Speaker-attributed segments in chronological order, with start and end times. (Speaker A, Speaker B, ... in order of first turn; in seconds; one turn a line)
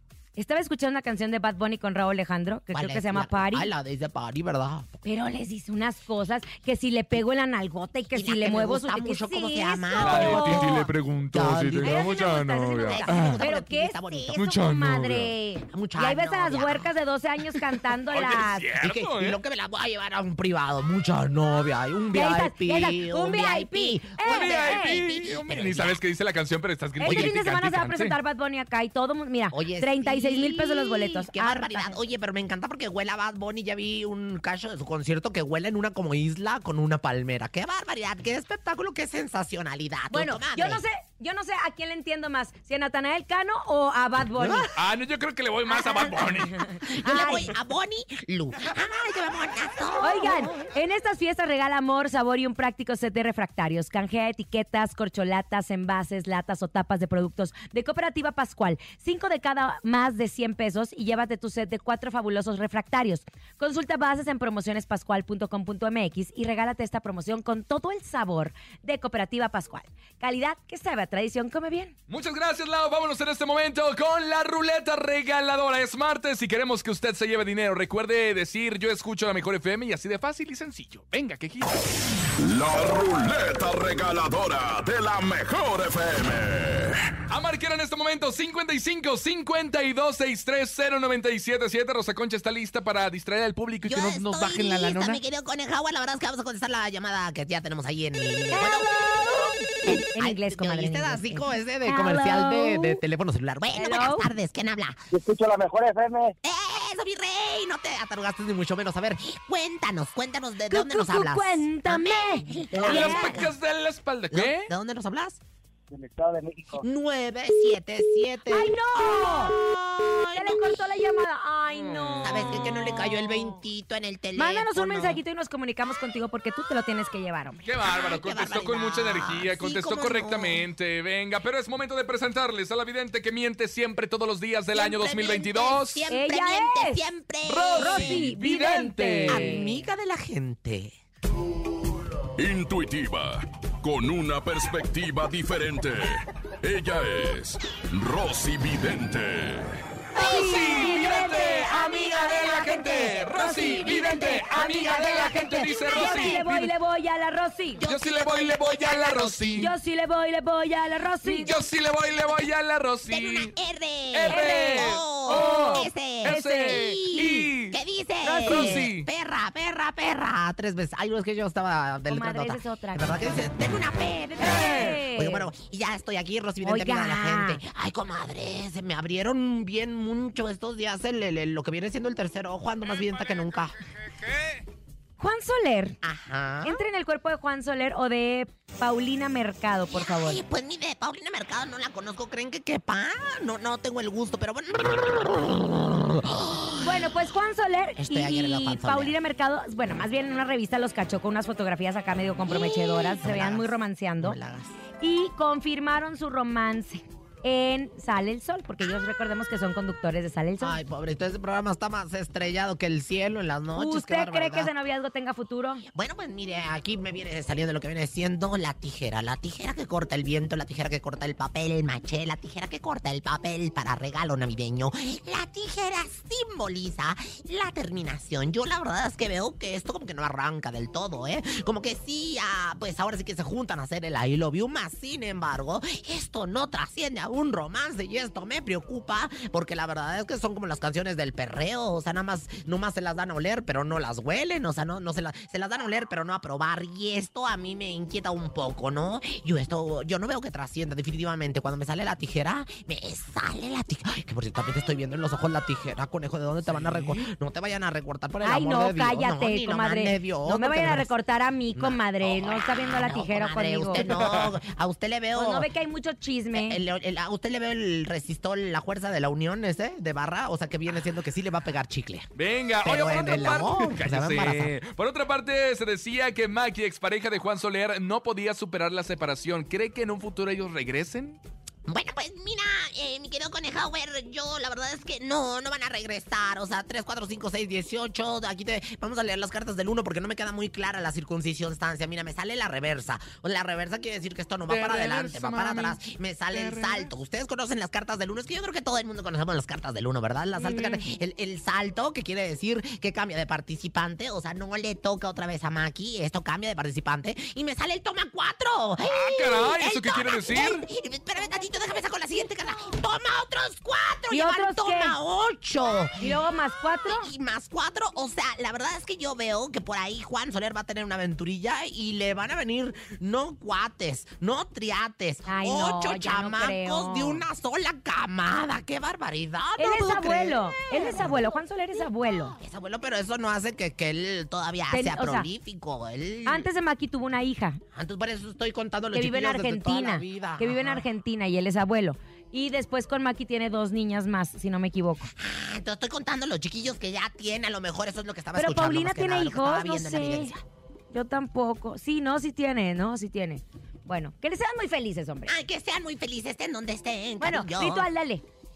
Speaker A: 0.3-3.7
Speaker B: 2.7-5.0
Speaker A: 5.0-10.8
Speaker B: 8.1-14.4
Speaker C: 10.0-13.4
Speaker A: 11.8-18.7
Speaker C: 14.3-15.3
Speaker B: 15.7-16.9
Speaker C: 18.1-19.4
Speaker B: 18.8-26.0
Speaker A: 22.1-25.0
Speaker C: 24.2-28.2
Speaker A: 27.0-32.0
Speaker B: 27.0-27.4
Speaker B: 29.5-40.8
Speaker A: 40.1-44.7
Speaker B: 44.3-44.7
Speaker C: 44.7-46.7
Speaker B: 45.7-50.6
Speaker A: 46.7-47.5
Speaker A: 50.0-71.9
Speaker C: 72.1-81.8
Speaker D: 82.4-87.1
Speaker C: 87.3-95.2
Speaker B: 93.8-98.9
Speaker A: 98.5-103.0
Speaker B: 99.8-105.0
Speaker A: 103.7-104.3
Speaker E: 105.1-106.3
Speaker B: 106.4-113.5
Speaker A: 110.7-113.3
Speaker E: 112.7-113.0
Speaker C: 112.8-114.7
Speaker B: 114.3-115.4
Speaker E: 115.9-116.8
Speaker B: 116.8-120.8
Speaker A: 118.5-119.5
Speaker A: 120.3-123.4
Speaker C: 121.9-122.7
Speaker B: 122.2-125.2
Speaker A: 124.3-127.6
Speaker C: 127.6-136.0
Speaker B: 127.8-130.6
Speaker B: 134.7-138.3
Speaker A: 136.1-137.0
Speaker C: 137.4-139.7
Speaker A: 137.8-139.7
Speaker B: 139.3-140.9
Speaker D: 142.4-149.8
Speaker A: 150.2-157.8
Speaker C: 150.2-156.7
Speaker B: 154.7-156.4
Speaker B: 157.8-159.7
Speaker C: 157.8-159.7
Speaker A: 159.6-161.6
Speaker C: 161.2-163.5
Speaker B: 163.1-183.7
Speaker C: 164.1-167.8
Speaker A: 164.3-167.5
Speaker A: 168.2-168.9
Speaker C: 168.4-169.1
Speaker A: 172.1-173.4
Speaker A: 174.4-175.5
Speaker C: 174.5-174.9
Speaker A: 176.6-177.6
Speaker A: 185.2-186.0
Speaker B: 186.0-186.8
Speaker A: 186.6-190.4
Speaker B: 189.9-197.1
Speaker A: 196.8-204.4
Speaker B: 198.0-199.1
Speaker B: 202.5-204.7
Speaker A: 205.0-210.8
Speaker B: 210.6-214.7
Speaker A: 213.7-215.8
Speaker B: 215.9-261.1
Speaker C: 256.8-257.1
Speaker A: 258.4-264.1
Speaker B: 261.7-265.7
Speaker C: 264.0-264.5
Speaker A: 265.3-266.8
Speaker B: 266.5-272.3
Speaker C: 272.4-281.4
Speaker B: 272.8-274.7
Speaker B: 281.9-316.3
Speaker C: 294.7-296.0
Speaker C: 296.5-297.1
Speaker A: 300.6-301.0
Speaker C: 309.0-310.8
Speaker A: 314.3-315.2
Speaker A: 316.2-317.3
Speaker B: 317.1-331.3
Speaker A: 325.5-327.4
Speaker A: 329.8-332.5
Speaker B: 332.6-336.7
Speaker A: 334.9-335.5
Speaker A: 336.4-337.8
Speaker B: 337.9-341.1
Speaker A: 339.1-345.3
Speaker B: 345.4-350.6
Speaker A: 348.5-350.5
Speaker A: 351.1-355.5
Speaker B: 355.4-358.1
Speaker A: 357.4-358.4